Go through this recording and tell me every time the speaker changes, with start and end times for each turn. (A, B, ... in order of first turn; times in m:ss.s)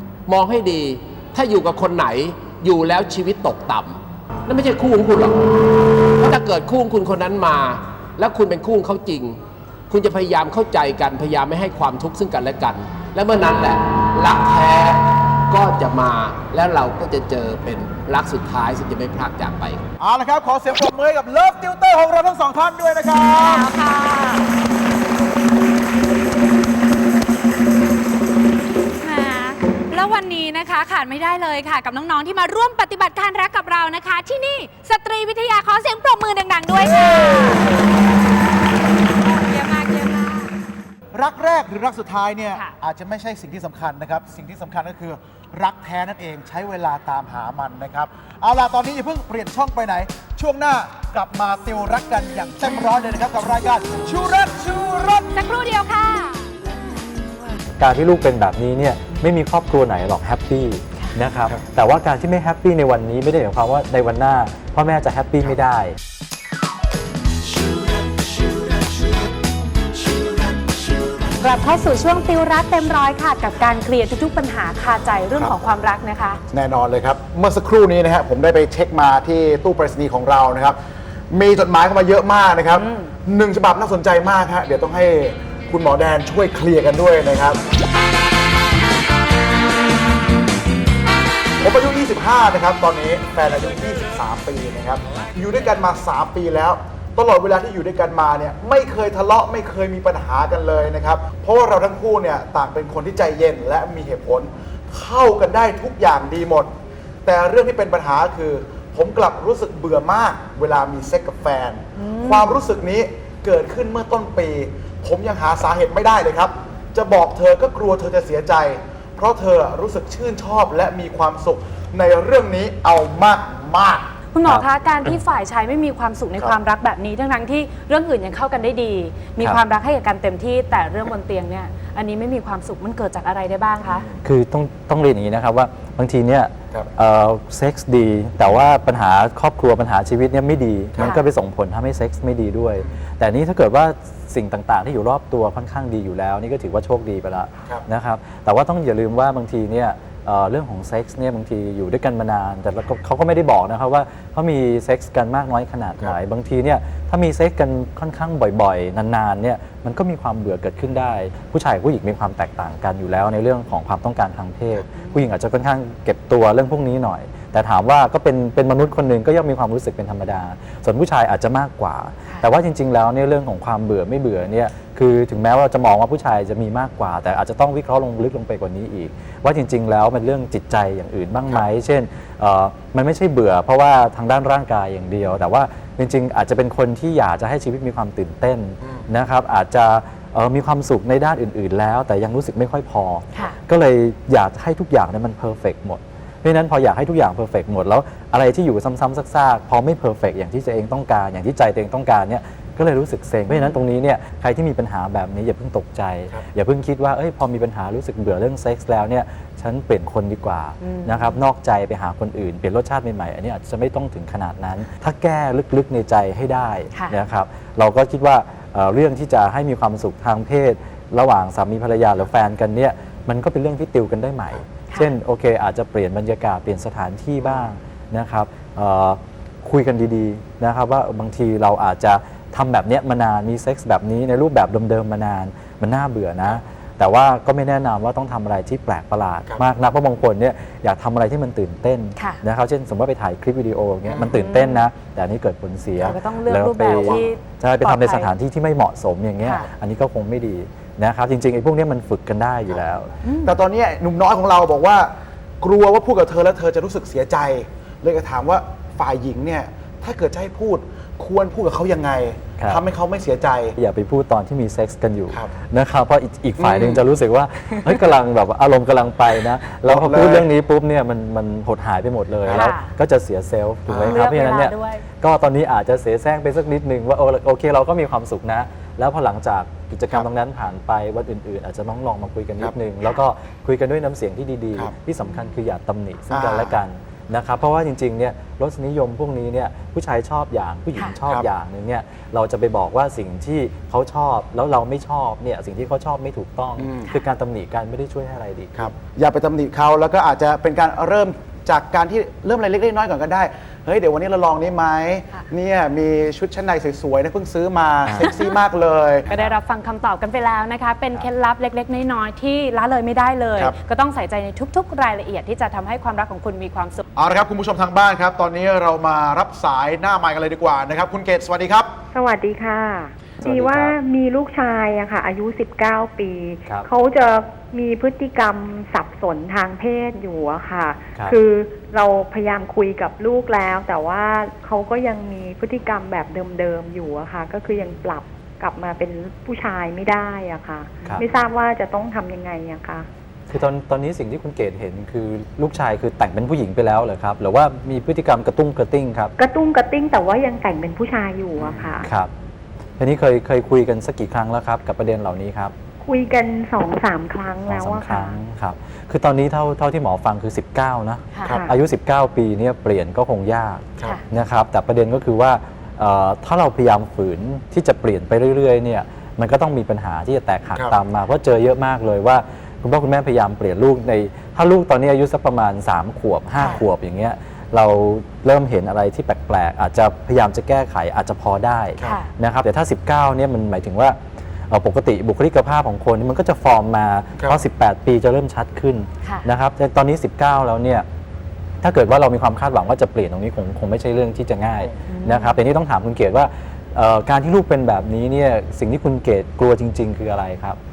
0:00.3-0:05.4 A
0:06.2-0:09.4 A
0:09.9-0:19.8 A
0:20.0-0:23.7 B
0:23.4-0:24.4 C
0:29.0-0:37.7 C
0:39.2-0:40.5 C
0:41.1-0:55.3 B
0:55.3-0:56.5 C
0:57.8-1:06.0 D
1:11.4-1:16.4 C
1:16.5-1:20.8 B
1:21.3-1:27.6 B
1:22.7-1:23.1 C
1:31.6-1:46.7 B
1:47.2-2:04.1 B
1:52.0-1:52.6 C
2:04.3-2:14.0 C
2:04.4-2:05.2 D
2:13.8-2:14.2 B
2:14.2-4:13.1 D
2:45.0-2:45.2 C
3:23.5-3:23.8 C
3:30.8-3:31.4 C
3:47.4-3:47.7 B
4:02.2-4:02.4 C
4:04.1-4:04.3 B
4:04.3-4:04.8 C
4:06.0-4:08.3 C
4:06.8-4:07.2 B
4:09.4-4:09.7 C
4:13.2-4:13.5 C
4:13.4-4:15.1 B
4:15.6-4:23.8 B
4:22.6-4:22.8 D
4:23.8-4:58.9 D
4:26.6-4:27.0 B
4:29.9-4:30.5 B
4:32.5-4:32.9 C
4:33.9-4:34.2 B
4:34.0-4:35.0 C
4:46.3-4:46.8 B
4:56.8-4:57.0 B
4:58.8-5:09.3 B
5:08.0-5:08.3 D
5:09.3-5:17.0 C
5:09.3-5:09.6 D
5:17.2-5:21.9 B
5:22.1-5:43.1 E
5:23.4-5:24.0 D
5:43.5-5:49.3 D
5:49.4-5:52.1 E
5:52.0-5:52.3 D
5:53.0-5:55.7 D
5:56.0-5:58.3 E
5:57.6-6:24.2 D
6:01.5-6:01.7 E
6:22.0-6:22.3 C
6:24.7-6:31.0 D
6:31.8-6:40.8 D
6:35.1-6:35.6 C